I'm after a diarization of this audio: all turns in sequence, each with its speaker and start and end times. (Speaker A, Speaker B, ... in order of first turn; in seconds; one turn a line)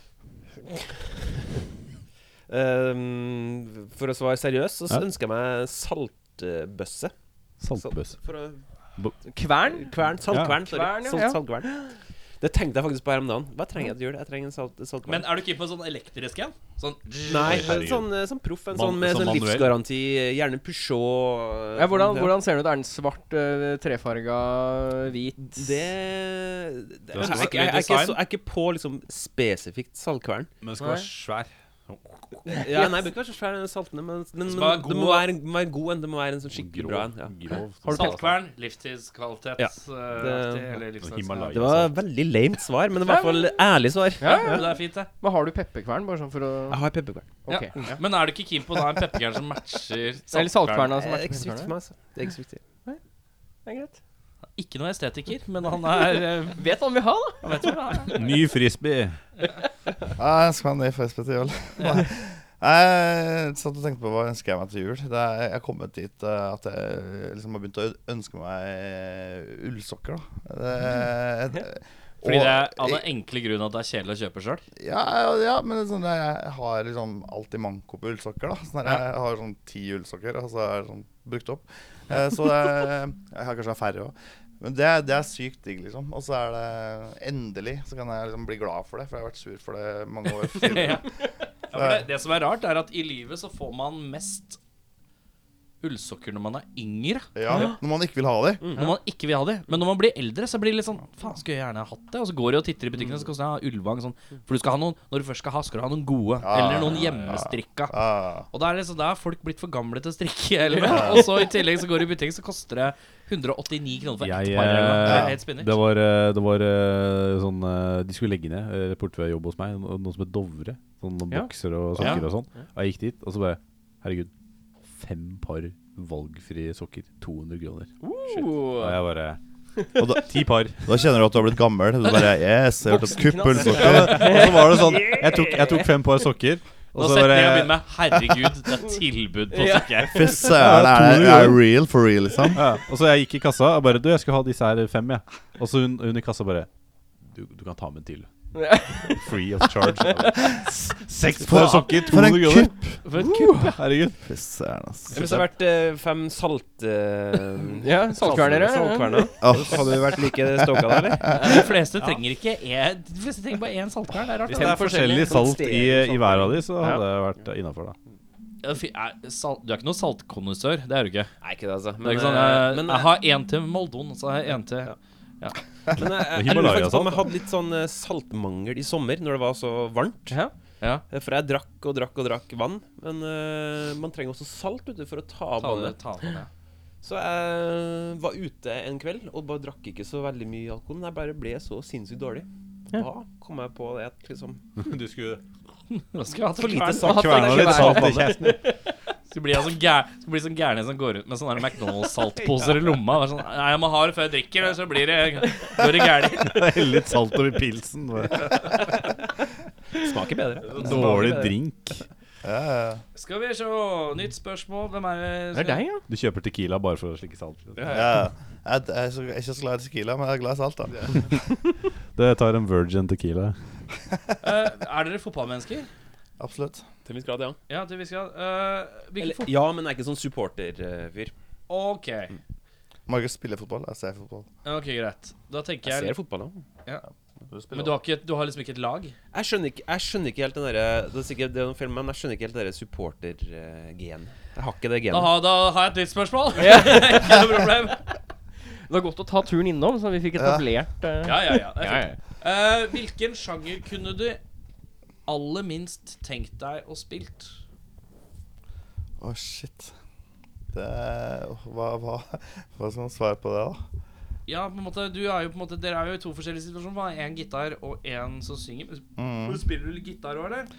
Speaker A: 2.5-7.1
Speaker B: 7.6-8.2
Speaker A: 7.7-8.6
Speaker C: 9.3-9.9
Speaker A: 9.8-15.3
Speaker B: 10.3-10.6
Speaker C: 10.6-11.7
Speaker D: 15.1-17.8
Speaker A: 17.2-22.4
Speaker B: 17.4-18.1
Speaker B: 18.7-19.8
Speaker C: 21.8-25.6
Speaker A: 25.4-30.5
Speaker B: 27.1-27.6
Speaker D: 27.2-28.2
Speaker B: 30.6-32.6
Speaker C: 30.8-31.1
Speaker A: 32.5-37.4
Speaker D: 34.5-35.3
Speaker B: 36.5-38.4
Speaker A: 37.9-38.1
Speaker D: 37.9-41.6
Speaker A: 39.6-40.8
Speaker B: 41.0-42.0
Speaker A: 41.5-44.7
Speaker C: 43.0-43.6
Speaker C: 44.2-46.8
Speaker D: 44.2-45.1
Speaker A: 46.7-47.3
Speaker C: 47.4-48.0
Speaker D: 47.5-50.9
Speaker C: 50.3-51.7
Speaker A: 50.9-52.6
Speaker C: 53.6-54.0
Speaker D: 54.6-56.6
Speaker C: 56.5-58.1
Speaker D: 57.4-58.4
Speaker B: 58.1-59.2
Speaker E: 60.2-73.0
Speaker D: 72.2-74.6
Speaker E: 74.8-91.1
Speaker D: 90.6-91.1
Speaker D: 91.7-94.6
Speaker E: 91.7-92.1
Speaker D: 95.8-97.3
Speaker E: 97.3-98.7
Speaker A: 98.6-99.0
Speaker D: 98.8-108.0
Speaker E: 106.4-108.5
Speaker D: 108.5-115.8
Speaker C: 110.8-111.1
Speaker E: 110.8-111.3
Speaker B: 114.2-124.3
Speaker E: 115.0-115.4
Speaker D: 122.0-122.2
Speaker B: 124.9-127.9
Speaker C: 128.0-129.0
Speaker B: 128.7-129.4
Speaker E: 130.0-134.6
Speaker B: 130.0-131.0
Speaker C: 132.9-135.9
Speaker B: 133.6-137.8
Speaker D: 136.9-140.4
Speaker C: 139.5-140.4
Speaker E: 140.1-142.7
Speaker B: 140.4-141.6
Speaker B: 142.5-146.7
Speaker B: 147.2-148.3
Speaker C: 148.5-150.4
Speaker B: 149.0-154.2
Speaker E: 151.4-153.0
Speaker D: 153.1-153.6
Speaker C: 153.2-153.7
Speaker E: 154.2-155.4
Speaker A: 155.1-161.4
Speaker C: 157.8-159.3
Speaker E: 159.4-161.5
Speaker D: 161.3-165.3
Speaker B: 164.5-168.0
Speaker A: 165.0-166.6
Speaker D: 168.6-171.3
Speaker A: 171.4-173.2
Speaker D: 172.0-175.6
Speaker A: 175.9-180.4
Speaker B: 176.1-177.3
Speaker A: 181.1-186.0
Speaker D: 185.6-186.5
Speaker A: 187.0-194.7
Speaker B: 194.8-195.4
Speaker D: 195.9-197.3
Speaker A: 196.6-198.4
Speaker C: 197.0-198.7
Speaker B: 197.0-198.6
Speaker D: 199.3-206.7
Speaker B: 206.4-208.7
Speaker A: 209.9-211.6
Speaker B: 210.6-212.1
Speaker E: 212.4-213.0
Speaker D: 213.2-215.8
Speaker C: 215.5-216.0
Speaker B: 216.1-218.1
Speaker A: 217.8-218.2
Speaker E: 217.9-221.4
Speaker B: 222.2-223.6
Speaker D: 224.4-225.9
Speaker E: 226.4-226.8
Speaker A: 227.1-227.6
Speaker D: 227.7-229.5
Speaker A: 229.2-231.3
Speaker D: 231.7-232.4
Speaker E: 233.1-234.5
Speaker D: 234.7-236.2
Speaker A: 235.8-236.6
Speaker E: 237.5-237.9
Speaker D: 237.7-239.2
Speaker A: 239.3-245.4
Speaker D: 245.1-248.1
Speaker C: 246.6-247.4
Speaker C: 248.9-252.2
Speaker E: 250.4-250.6
Speaker D: 251.2-254.4
Speaker D: 255.3-257.5
Speaker E: 259.2-259.9
Speaker E: 260.7-263.8
Speaker D: 264.5-270.7
Speaker E: 269.2-269.6